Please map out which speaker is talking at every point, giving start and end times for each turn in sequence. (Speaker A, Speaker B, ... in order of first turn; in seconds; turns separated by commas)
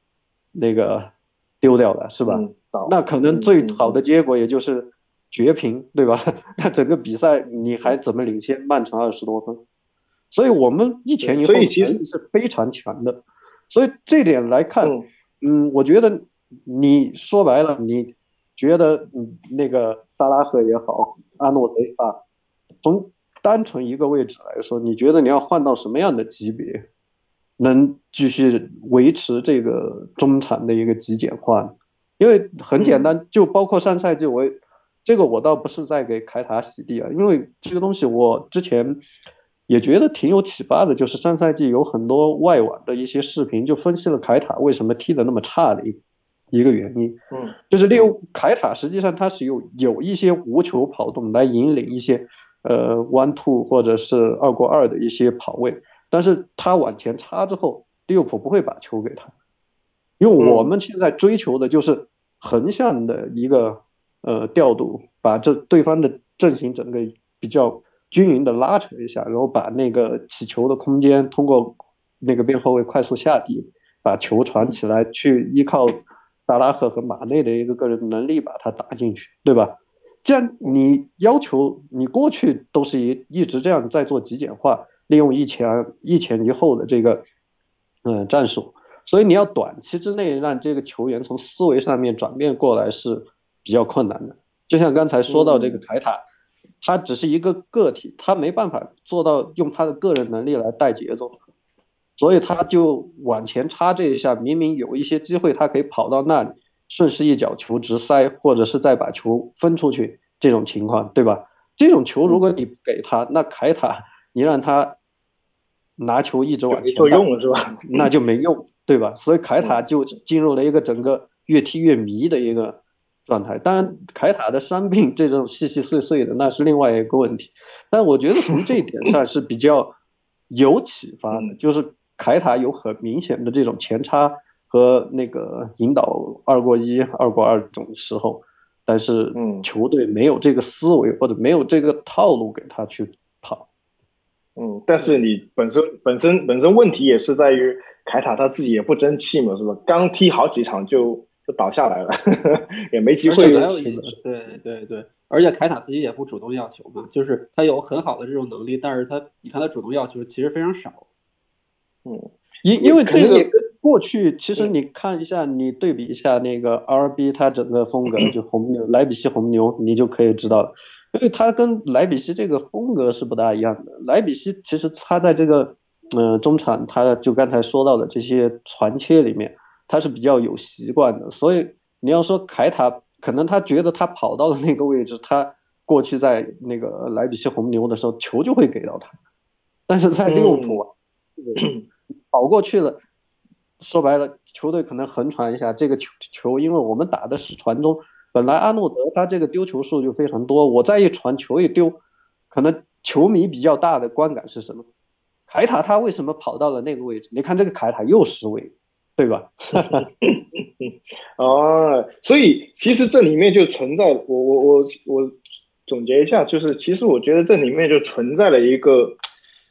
Speaker A: 0.5-9.6, Speaker B: 2.3-4.0, Speaker A: 10.3-13.2, Speaker B: 11.2-12.0, Speaker A: 13.7-22.2, Speaker A: 22.8-26.8, Speaker A: 27.6-39.0, Speaker B: 32.8-33.1, Speaker A: 39.7-46.0, Speaker A: 46.5-47.2, Speaker B: 47.3-48.1, Speaker A: 47.7-59.3, Speaker A: 60.2-79.7, Speaker B: 60.4-60.7, Speaker A: 80.2-87.2, Speaker A: 88.0-96.2, Speaker B: 95.3-95.8, Speaker A: 96.8-101.4, Speaker A: 102.2-114.9, Speaker A: 116.0-117.3, Speaker B: 116.7-118.1, Speaker A: 117.9-129.9, Speaker A: 130.5-143.7, Speaker B: 139.3-139.7, Speaker B: 144.6-153.7, Speaker C: 153.3-161.1, Speaker A: 153.4-154.2, Speaker B: 162.1-163.5, Speaker A: 162.6-189.2, Speaker A: 189.9-193.0, Speaker B: 190.3-190.8, Speaker B: 191.6-191.8, Speaker A: 193.8-202.0, Speaker A: 202.5-204.8, Speaker A: 205.5-210.0, Speaker B: 209.8-219.2